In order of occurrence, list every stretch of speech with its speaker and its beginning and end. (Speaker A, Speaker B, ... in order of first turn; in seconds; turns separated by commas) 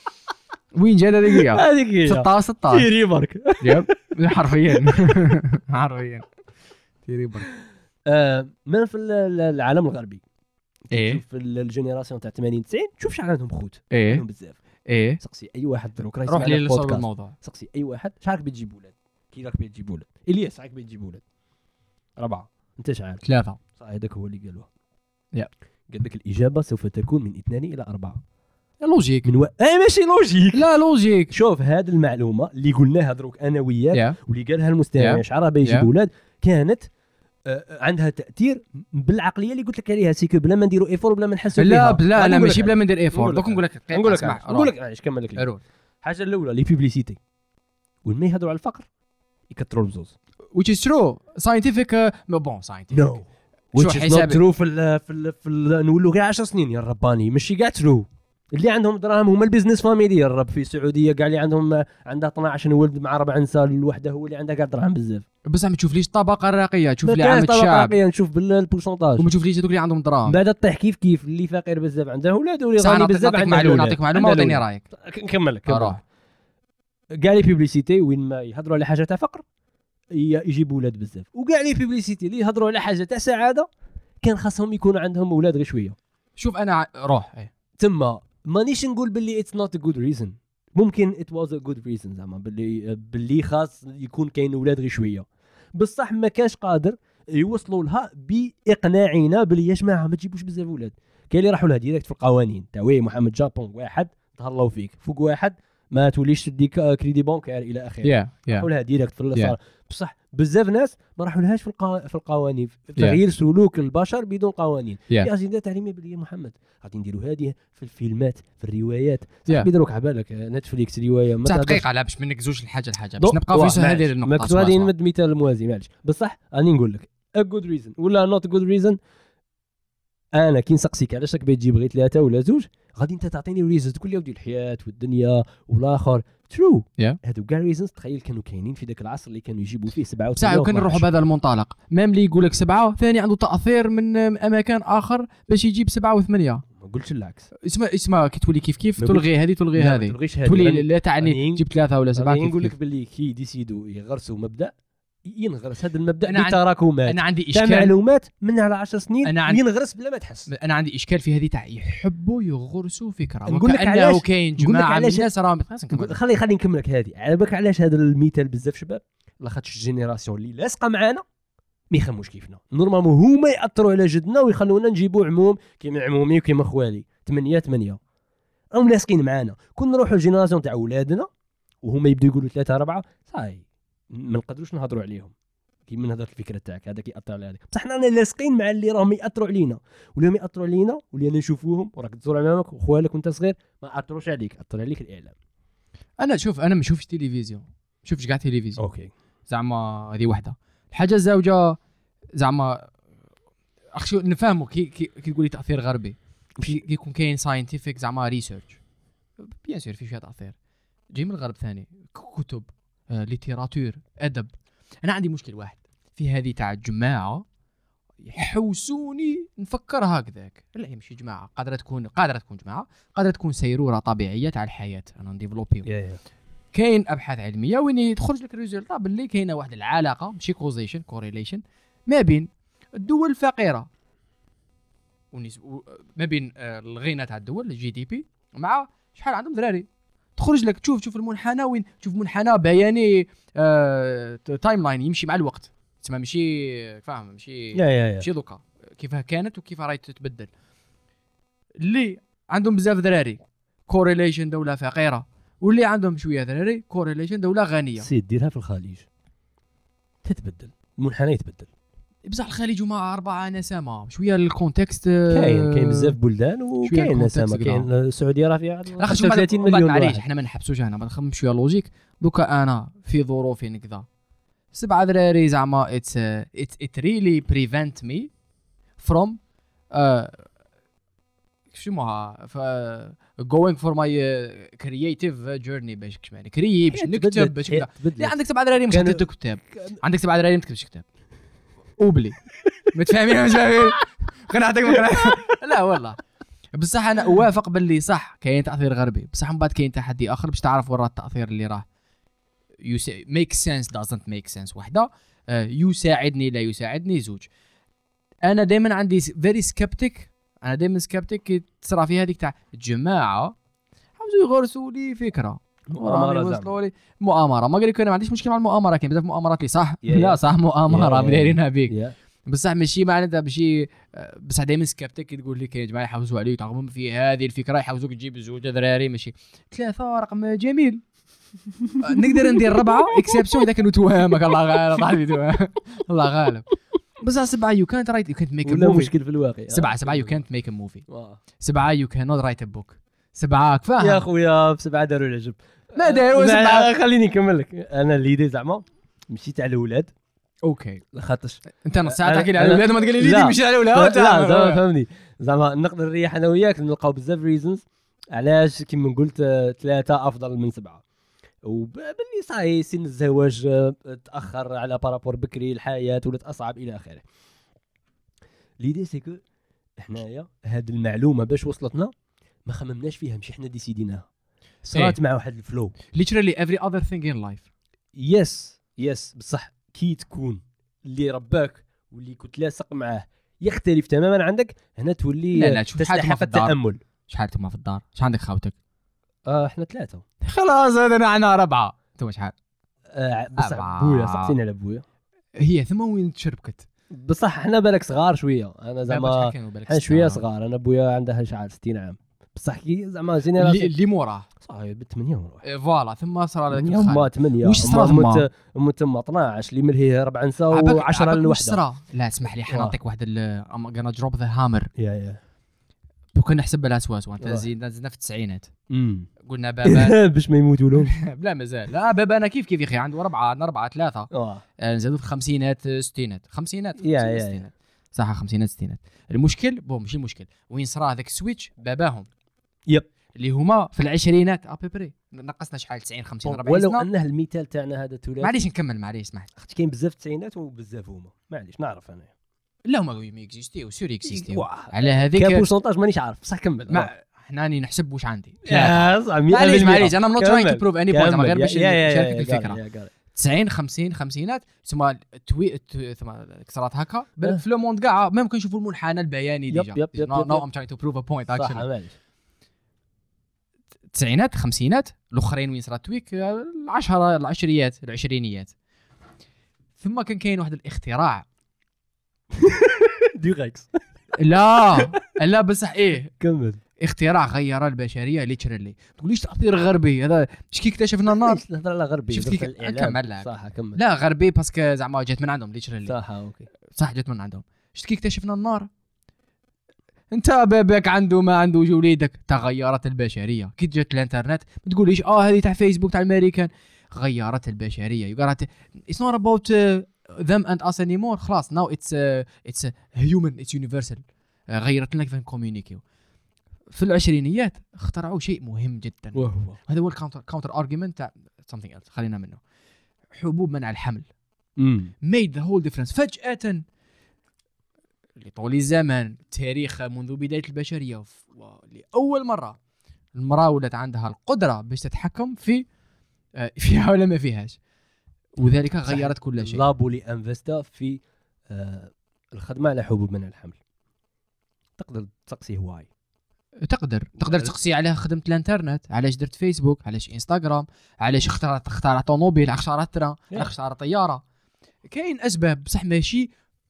Speaker A: 0.7-2.9, Speaker B: 1.3-4.0, Speaker A: 3.6-6.3, Speaker A: 7.0-7.5, Speaker B: 8.1-10.2, Speaker B: 10.9-14.6, Speaker A: 10.9-11.2, Speaker A: 13.9-14.2, Speaker A: 14.9-15.2, Speaker B: 15.2-21.2, Speaker A: 16.3-17.3, Speaker B: 22.2-24.7, Speaker A: 23.2-23.6, Speaker B: 25.9-28.2, Speaker A: 28.8-29.3, Speaker B: 29.2-30.7, Speaker A: 30.5-31.3, Speaker B: 31.3-36.9, Speaker A: 33.9-34.2, Speaker A: 35.0-35.9, Speaker B: 37.5-45.5, Speaker A: 41.6-44.7, Speaker A: 45.4-45.6, Speaker B: 46.0-47.2, Speaker B: 48.0-48.9, Speaker B: 49.5-50.1, Speaker A: 50.5-53.1, Speaker B: 52.9-65.2, Speaker A: 53.8-54.4, Speaker A: 65.4-67.9, Speaker B: 67.0-69.3, Speaker A: 69.2-70.4, Speaker B: 70.3-76.0, Speaker A: 72.8-74.8, Speaker A: 75.7-76.0, Speaker B: 77.2-79.4, Speaker B: 80.1-83.7, Speaker B: 84.2-86.0, Speaker A: 86.4-87.5, Speaker B: 87.8-121.8, Speaker A: 108.0-108.7, Speaker A: 121.4-124.9, Speaker B: 123.2-129.0, Speaker B: 130.3-141.1, Speaker A: 140.3-146.6, Speaker B: 146.7-147.5, Speaker A: 147.6-152.7, Speaker B: 149.0-151.6, Speaker B: 152.1-154.7, Speaker B: 155.2-160.5, Speaker A: 156.2-157.9, Speaker A: 159.2-159.6, Speaker A: 160.5-166.2, Speaker B: 163.4-165.3, Speaker B: 165.9-171.2, Speaker B: 171.9-178.0, Speaker B: 178.7-181.3, Speaker B: 181.8-185.3, Speaker B: 185.9-195.3, Speaker A: 196.2-198.8, Speaker B: 198.8-199.1, Speaker A: 199.5-201.8, Speaker A: 202.3-202.9, Speaker A: 203.9-208.8, Speaker A: 209.4-210.6, Speaker A: 211.1-217.4, Speaker A: 218.2-225.9, Speaker B: 225.8-226.2, Speaker A: 226.7-233.9, Speaker A: 235.3-250.5, Speaker B: 247.7-248.2, Speaker A: 251.8-258.1, Speaker B: 258.0-259.1, Speaker B: 260.2-261.7, Speaker A: 262.2-266.1, Speaker B: 265.3-270.2, Speaker A: 266.8-267.9, Speaker A: 269.0-274.1, Speaker A: 274.7-278.3, Speaker A: 279.0-279.4, Speaker A: 279.9-280.5, Speaker A: 281.7-291.0, Speaker B: 286.9-288.3, Speaker B: 288.9-290.0, Speaker A: 292.0-296.2, Speaker A: 296.7-301.9, Speaker A: 302.8-307.5, Speaker A: 308.4-313.5, Speaker A: 314.2-331.0, Speaker B: 315.9-316.7, Speaker B: 320.0-322.1, Speaker A: 332.0-336.7, Speaker B: 332.7-333.4, Speaker A: 337.2-339.1, Speaker B: 338.6-340.4, Speaker A: 339.7-341.0, Speaker B: 341.1-341.4, Speaker A: 341.6-344.2, Speaker B: 344.0-350.1, Speaker A: 345.9-346.9, Speaker A: 350.6-351.0, Speaker B: 351.1-361.0, Speaker A: 351.8-354.8, Speaker B: 361.6-367.2, Speaker B: 368.8-369.4, Speaker B: 370.0-372.1, Speaker B: 372.6-374.2, Speaker B: 374.8-375.9, Speaker A: 374.9-375.2, Speaker A: 376.1-377.6, Speaker B: 378.2-387.0, Speaker A: 385.5-386.7, Speaker A: 387.3-388.7, Speaker B: 389.4-390.2, Speaker A: 390.4-392.5, Speaker B: 393.1-395.0, Speaker A: 393.6-394.5, Speaker A: 395.6-396.9, Speaker B: 397.1-403.9, Speaker A: 399.1-400.4, Speaker A: 403.6-404.5, Speaker B: 404.6-405.6, Speaker A: 405.6-408.4, Speaker B: 406.7-411.8, Speaker A: 410.7-414.9, Speaker B: 412.7-412.9, Speaker B: 415.0-415.4, Speaker A: 416.3-418.7, Speaker B: 417.4-417.6, Speaker B: 418.9-419.3, Speaker A: 419.4-420.2, Speaker B: 419.8-421.1, Speaker A: 421.0-432.3, Speaker B: 424.3-424.6, Speaker B: 427.0-427.6, Speaker A: 433.4-437.1, Speaker B: 436.4-438.6, Speaker A: 438.4-439.5, Speaker B: 439.6-442.3, Speaker A: 442.8-445.7, Speaker B: 444.2-447.1, Speaker A: 446.9-452.8, Speaker B: 448.6-453.1, Speaker A: 453.3-461.8, Speaker B: 459.7-460.6, Speaker B: 461.5-462.1, Speaker A: 464.1-468.7, Speaker A: 470.0-471.4, Speaker B: 472.5-473.9, Speaker A: 474.3-476.3, Speaker B: 474.9-475.2, Speaker B: 476.4-476.8, Speaker A: 477.0-481.6, Speaker B: 481.3-484.0, Speaker A: 482.3-486.1, Speaker B: 486.0-486.7, Speaker A: 486.9-488.9, Speaker A: 490.3-506.0, Speaker A: 506.9-512.6, Speaker B: 509.3-509.8, Speaker A: 513.3-514.3, Speaker B: 514.8-515.1, Speaker A: 515.2-516.8, Speaker A: 518.4-522.8, Speaker A: 523.3-525.8, Speaker A: 526.5-527.8, Speaker A: 528.6-529.8, Speaker B: 529.0-533.8, Speaker B: 535.0-536.1, Speaker A: 536.8-544.4, Speaker A: 545.0-546.5